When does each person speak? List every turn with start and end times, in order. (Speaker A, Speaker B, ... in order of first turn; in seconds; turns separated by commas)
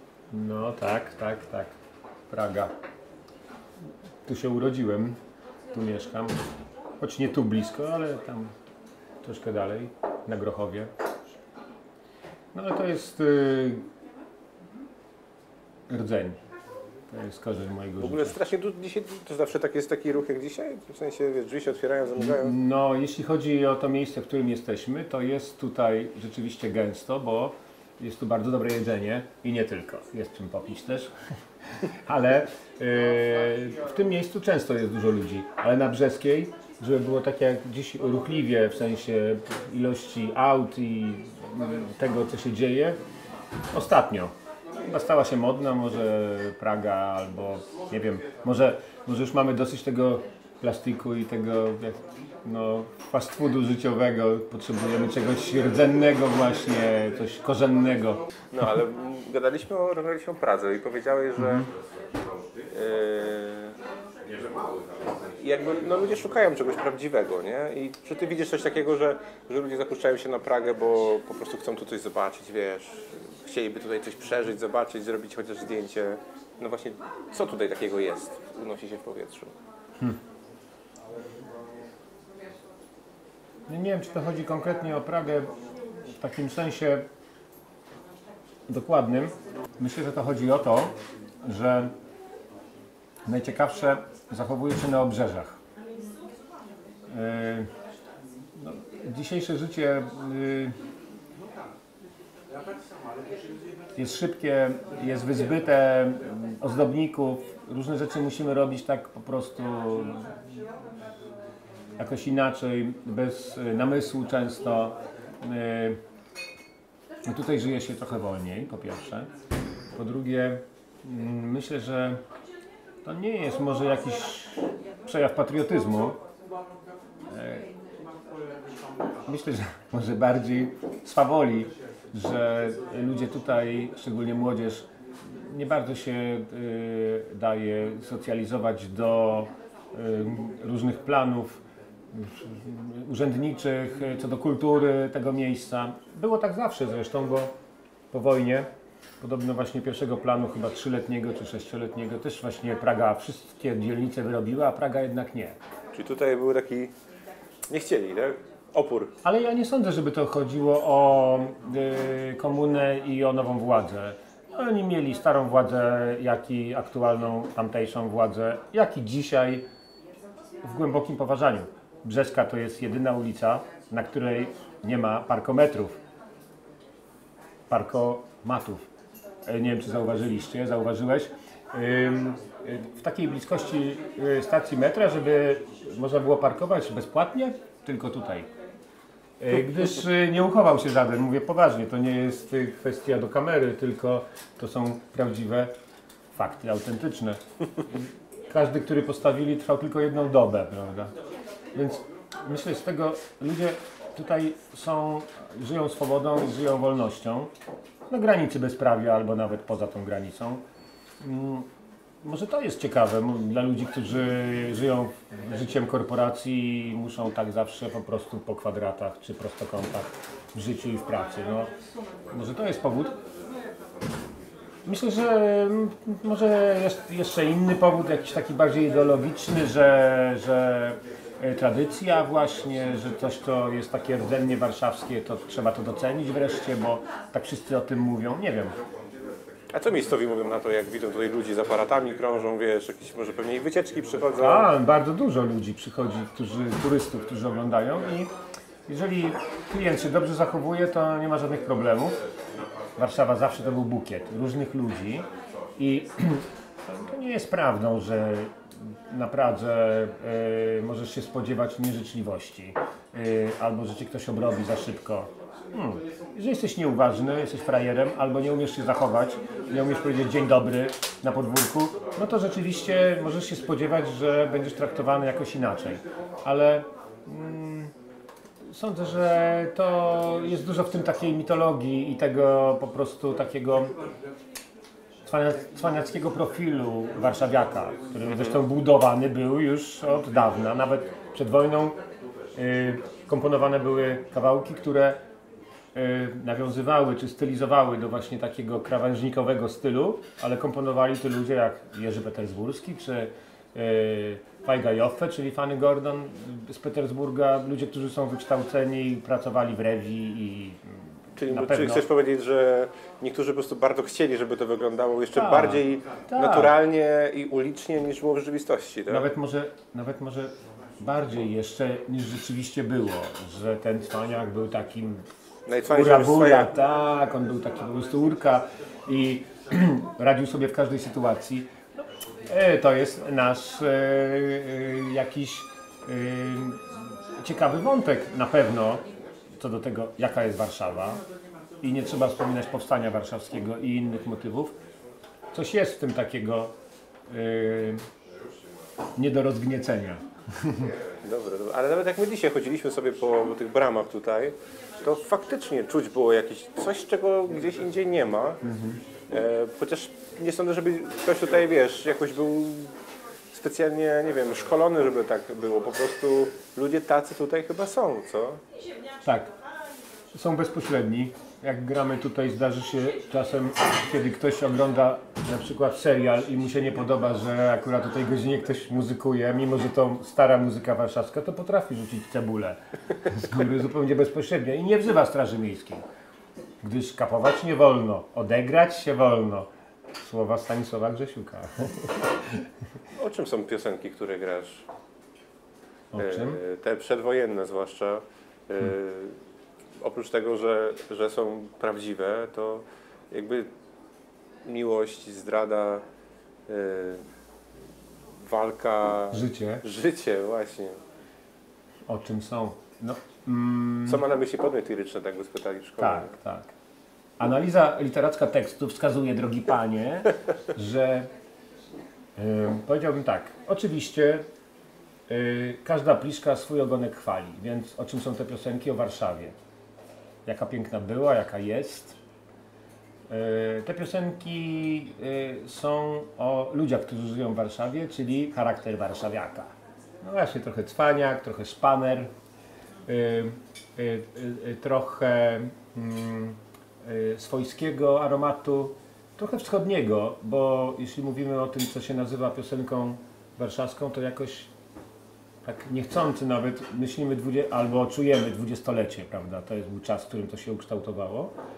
Speaker A: 0.3-1.7, Speaker A: 2.3-2.7, Speaker A: 4.2-5.2, Speaker A: 5.7-6.4, Speaker A: 7.0-8.5, Speaker A: 9.2-10.9, Speaker A: 12.5-13.9, Speaker A: 15.9-16.4, Speaker A: 17.1-18.4, Speaker B: 18.0-22.6, Speaker A: 22.2-31.1, Speaker A: 31.8-43.0, Speaker A: 43.7-44.3, Speaker A: 44.8-58.2, Speaker B: 58.5-61.7, Speaker A: 61.4-61.7, Speaker B: 62.7-63.8, Speaker B: 65.4-79.5, Speaker A: 83.7-85.5, Speaker A: 86.0-87.1, Speaker A: 88.7-91.9, Speaker A: 93.3-95.6, Speaker A: 97.1-97.7, Speaker A: 98.5-100.8, Speaker A: 104.0-110.3, Speaker A: 112.0-116.0, Speaker A: 117.3-119.3, Speaker A: 120.0-122.2, Speaker A: 123.0-126.2, Speaker A: 127.2-127.7, Speaker A: 129.3-147.5, Speaker A: 148.1-148.7, Speaker A: 149.2-155.6, Speaker B: 155.9-156.9, Speaker B: 157.7-159.1, Speaker A: 159.2-169.7, Speaker A: 170.6-176.0, Speaker A: 177.7-178.9, Speaker A: 179.4-188.5, Speaker A: 189.4-195.7, Speaker A: 196.3-201.1, Speaker A: 201.8-207.5, Speaker A: 208.1-210.6, Speaker A: 211.2-211.7, Speaker A: 212.2-221.7, Speaker A: 222.3-223.2, Speaker A: 224.9-238.8, Speaker B: 239.7-244.7, Speaker A: 244.4-248.3, Speaker A: 248.9-252.2, Speaker A: 253.0-277.9, Speaker A: 278.7-283.9, Speaker A: 285.2-292.0, Speaker A: 292.6-295.2, Speaker A: 295.9-312.1, Speaker B: 311.4-319.3, Speaker A: 315.3-316.7, Speaker A: 319.1-325.2, Speaker B: 325.7-326.7, Speaker A: 325.9-331.7, Speaker A: 332.5-341.2, Speaker A: 341.8-344.7, Speaker A: 345.5-346.7, Speaker A: 347.3-348.1, Speaker A: 349.2-350.9, Speaker B: 351.2-358.6, Speaker A: 358.6-359.0, Speaker B: 359.3-362.9, Speaker B: 363.5-368.6, Speaker A: 369.2-369.5, Speaker A: 370.3-386.1, Speaker A: 386.8-389.7, Speaker A: 390.2-392.7, Speaker B: 393.1-394.9, Speaker A: 396.1-396.6, Speaker B: 396.2-399.4, Speaker B: 400.0-403.7, Speaker B: 404.6-406.0, Speaker B: 406.7-407.2, Speaker B: 408.4-411.0, Speaker A: 409.3-409.8, Speaker A: 412.1-414.2, Speaker B: 414.1-416.4, Speaker A: 416.0-416.7, Speaker A: 417.4-421.3, Speaker A: 422.4-424.4, Speaker A: 425.3-429.6, Speaker A: 430.4-432.2, Speaker A: 433.3-442.3, Speaker A: 443.1-454.7, Speaker A: 455.6-461.5